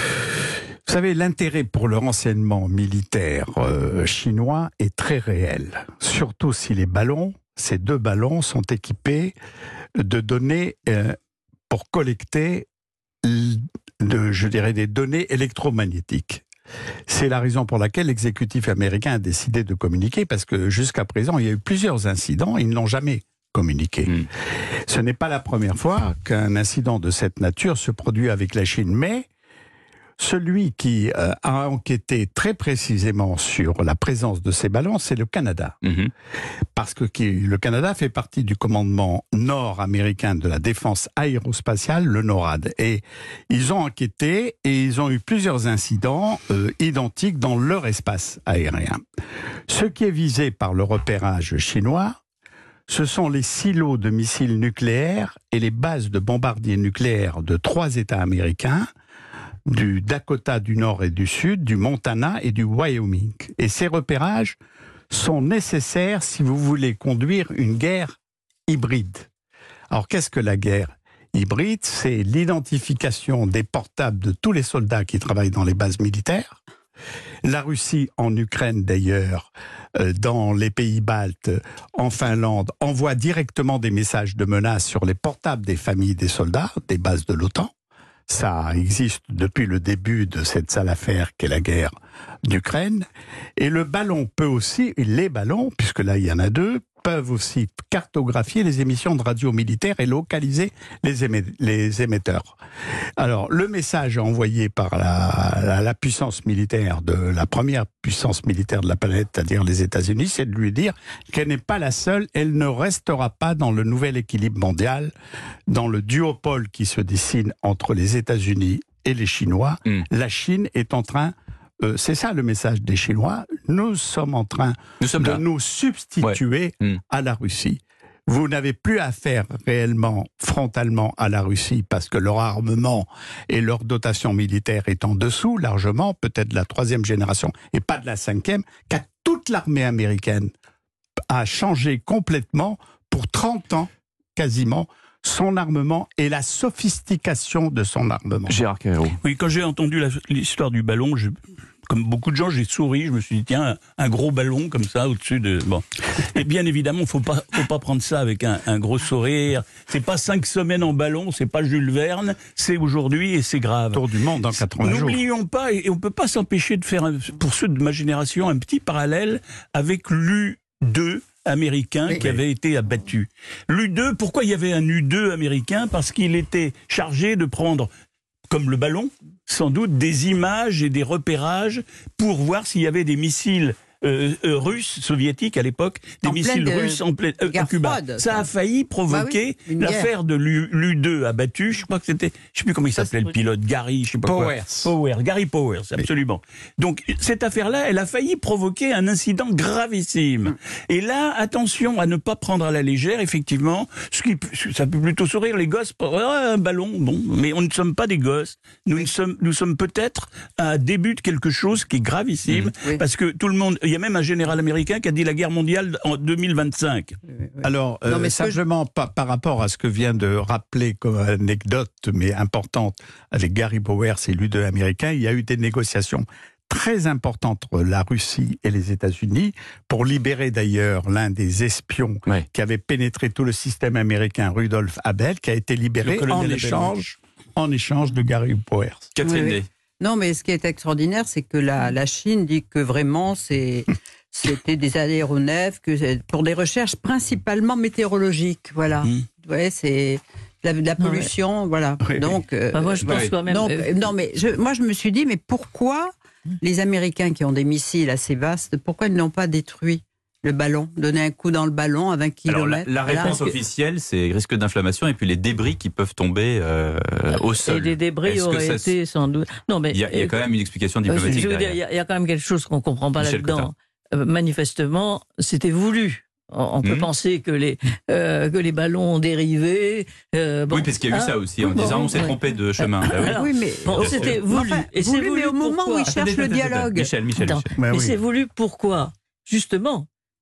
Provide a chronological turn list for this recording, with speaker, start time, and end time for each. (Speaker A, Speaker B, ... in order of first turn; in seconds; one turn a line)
Speaker A: 0.9-9.3
Speaker A: 10.0-11.2
Speaker A: 11.7-12.7
Speaker A: 13.2-16.4
Speaker A: 17.1-24.3
Speaker A: 24.9-29.3
Speaker A: 30.2-35.8
Speaker B: 35.8-36.1
Speaker A: 36.8-49.0
Speaker A: 49.7-52.2
Speaker A: 52.9-58.9
Speaker A: 59.7-64.6
Speaker A: 65.1-69.3
Speaker A: 69.9-76.6
Speaker A: 77.4-87.7
Speaker A: 88.3-91.9
Speaker A: 92.5-93.1
Speaker A: 93.6-102.6
Speaker A: 103.2-115.1
Speaker A: 115.7-140.5
Speaker B: 125.0-125.4
Speaker B: 126.2-127.0
Speaker A: 141.3-148.6
Speaker B: 148.5-149.2
Speaker C: 149.2-151.3
Speaker C: 151.9-177.9
Speaker A: 163.9-165.2
Speaker C: 178.5-217.2
Speaker D: 186.2-188.5
Speaker D: 189.1-190.1
Speaker A: 194.2-194.9
Speaker D: 217.3-218.6
Speaker A: 217.6-239.1
Speaker C: 236.0-237.1
Speaker B: 239.2-239.7
Speaker D: 239.2-263.6
Speaker C: 249.0-249.3
Speaker E: 251.0-251.3
Speaker E: 252.7-253.9
Speaker B: 253.0-253.3
Speaker B: 262.5-268.9
Speaker E: 267.3-270.4
Speaker B: 269.9-271.8
Speaker E: 271.1-286.2
Speaker B: 273.2-273.7
Speaker B: 276.8-277.1
Speaker B: 280.7-284.4
Speaker D: 283.2-287.1
Speaker B: 286.1-287.7
Speaker E: 287.4-290.1
Speaker A: 287.8-288.2